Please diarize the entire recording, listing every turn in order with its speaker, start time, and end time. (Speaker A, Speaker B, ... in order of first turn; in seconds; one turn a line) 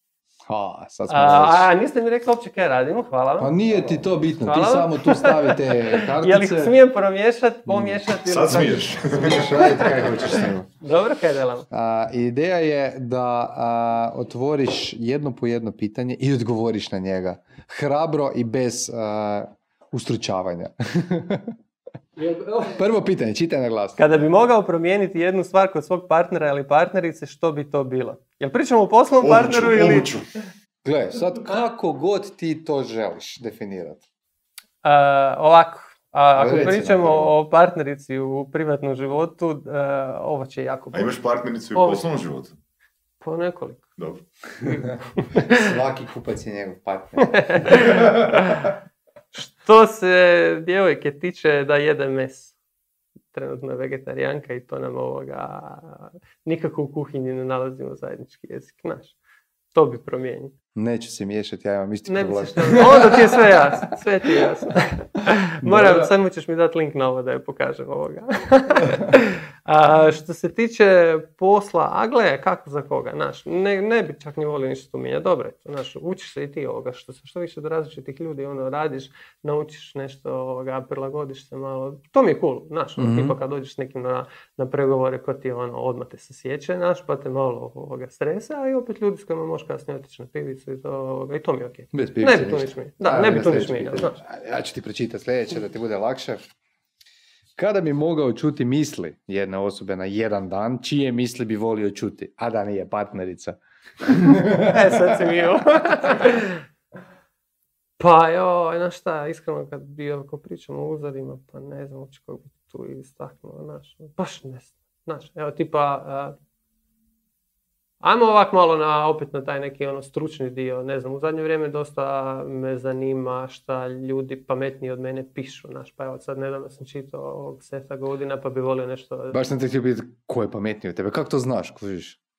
Speaker A: 0.5-1.7
Speaker B: 1.1-3.5
Speaker A: 3.4-6.7
Speaker B: 4.4-11.7
Speaker A: 7.7-8.0
Speaker C: 8.2-9.6
Speaker A: 9.1-10.7
Speaker A: 11.7-21.6
Speaker A: 22.2-24.0
Speaker B: 24.0-30.1
Speaker C: 29.2-30.2
Speaker A: 30.8-34.0
Speaker B: 34.8-41.1
Speaker A: 36.3-37.3
Speaker C: 40.9-42.5
Speaker B: 41.7-42.0
Speaker B: 43.2-43.8
Speaker B: 44.6-45.7
Speaker A: 45.3-48.7
Speaker B: 47.2-48.7
Speaker B: 49.3-52.5
Speaker B: 53.3-59.1
Speaker B: 59.7-60.5
Speaker A: 60.7-63.8
Speaker B: 62.1-94.2
Speaker A: 65.6-66.1
Speaker A: 83.0-83.4
Speaker A: 91.9-96.4
Speaker A: 97.6-105.2
Speaker B: 104.7-106.6
Speaker B: 108.0-116.3
Speaker B: 118.0-129.4
Speaker A: 129.3-132.2